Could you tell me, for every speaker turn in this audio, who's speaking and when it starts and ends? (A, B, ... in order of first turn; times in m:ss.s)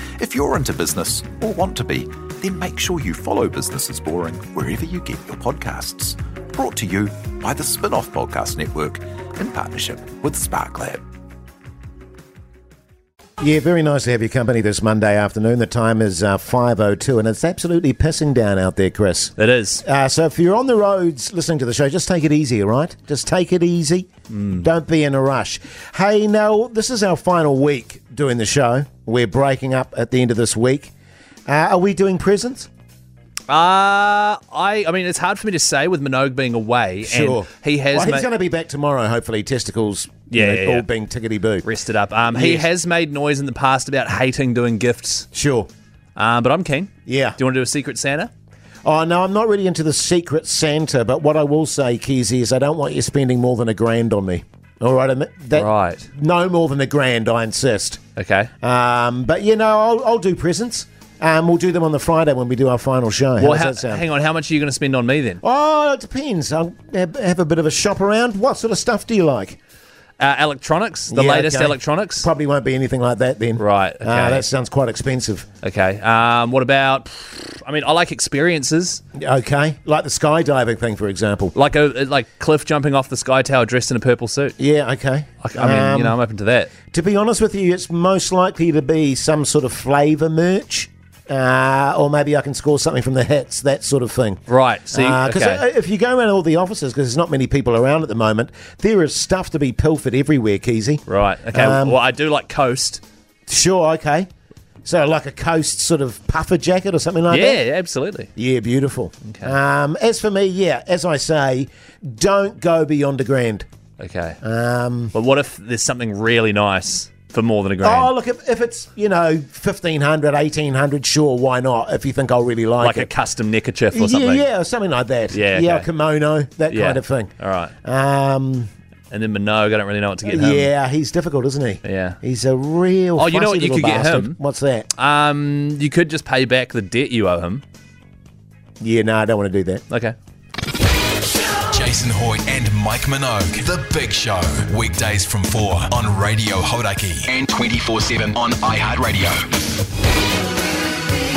0:00.2-0:11.0 A
0:13.4-0:30.9 B
0:19.4-0:19.8 C
0:24.3-0:24.7 C
0:31.5-0:32.7 B
0:33.5-0:38.3 C
0:37.0-0:41.7 B
0:40.3-0:40.9 C
0:41.6-0:45.3 C
0:42.3-0:42.7 B
0:45.3-0:45.7 B
0:46.2-0:48.3 C
0:47.1-0:47.4 B
0:48.8-0:58.0 B
0:55.5-0:56.1 C
0:58.2-0:58.5 C
0:58.6-1:04.0 B
1:03.4-1:05.4 C
1:05.4-1:09.6 B
1:10.2-1:12.3 C
1:11.1-1:15.5 B
1:13.6-1:14.5 C
1:15.6-1:19.0 C
1:19.2-1:21.5 B
1:21.6-1:24.6 C
1:24.6-1:26.2 B
1:25.4-1:26.7 C
1:26.9-1:42.0 B
1:34.5-1:35.6 C
1:41.1-1:43.0 C
1:43.5-1:44.3 B
1:44.8-1:47.6 B
1:47.3-1:48.3 C
1:48.4-1:53.7 B
1:49.2-1:49.5 C
1:54.0-1:54.4 C
1:54.4-1:55.1 B
1:55.1-1:58.1 C
1:57.8-2:03.1 B
2:02.8-2:04.5 C
2:03.9-2:07.3 B
2:05.3-2:05.9 C
2:06.7-2:07.7 C
2:07.8-2:08.7 B
2:09.1-2:10.7 C
2:10.3-2:14.9 B
2:11.8-2:12.2 C
2:13.2-2:14.4 C
2:15.0-2:17.6 C
2:18.8-2:19.8 B
2:19.9-2:20.2 C
2:21.7-2:29.5 D